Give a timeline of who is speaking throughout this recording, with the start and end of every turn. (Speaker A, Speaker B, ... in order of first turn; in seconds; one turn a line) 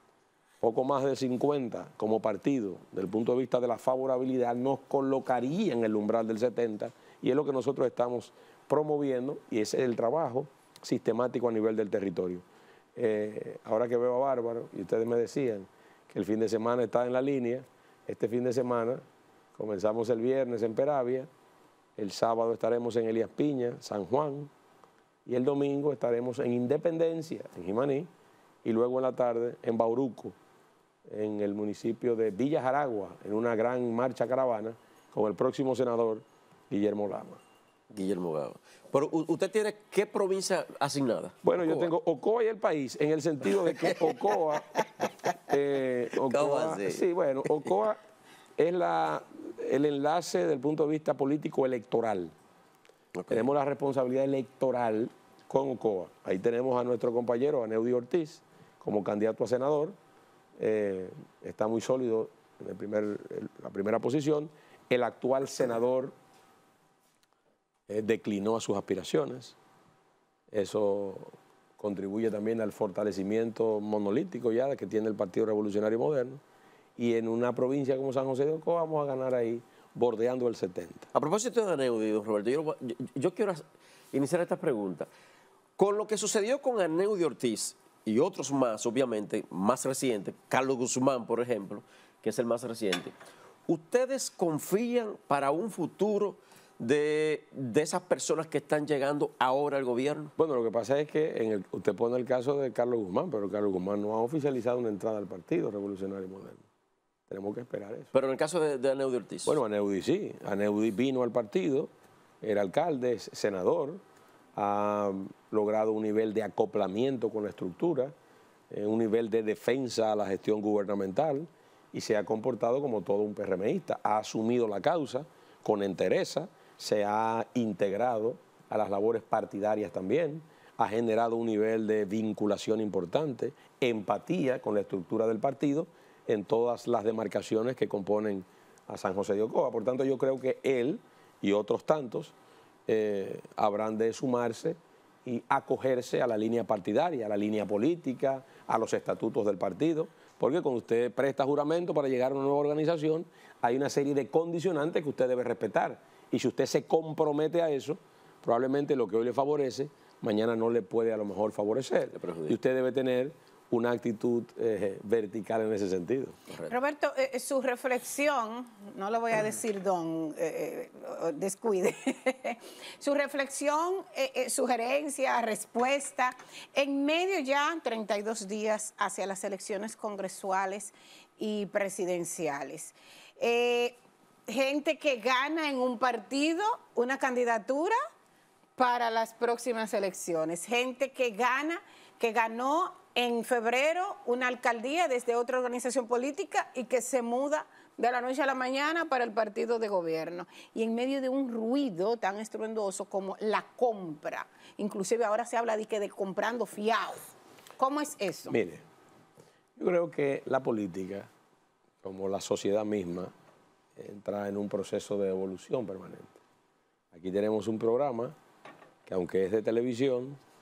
Speaker A: 0.6-12.4
Speaker A: 13.0-19.0
Speaker A: 19.6-21.3
Speaker A: 22.0-24.5
Speaker A: 25.3-28.1
Speaker A: 28.6-30.4
Speaker A: 31.1-37.4
Speaker B: 37.9-41.9
Speaker A: 41.4-44.7
Speaker B: 43.6-44.8
Speaker A: 45.5-48.0
Speaker B: 46.2-47.7
Speaker A: 48.6-52.3
Speaker B: 53.2-53.5
Speaker A: 53.3-60.0
Speaker A: 60.6-66.1
Speaker A: 67.9-69.6
Speaker A: 70.5-76.4
Speaker A: 77.0-81.1
Speaker B: 81.1-85.1
Speaker B: 85.8-93.1
Speaker B: 93.7-100.3
Speaker A: 100.4-106.6
Speaker A: 107.3-108.1
Speaker B: 108.1-109.6
Speaker A: 109.5-111.9
Speaker A: 112.4-114.0
Speaker A: 114.6-118.1
Speaker A: 118.7-142.3
Speaker A: 142.9-166.4
Speaker B: 162.2-162.6
Speaker C: 166.7-184.0
Speaker C: 184.5-188.0
Speaker C: 188.8-207.2
Speaker C: 207.8-208.6
Speaker A: 208.5-208.8
Speaker A: 209.8-211.3
Speaker A: 212.0-213.3
Speaker A: 214.0-216.4
Speaker A: 217.1-218.3
Speaker A: 219.1-220.4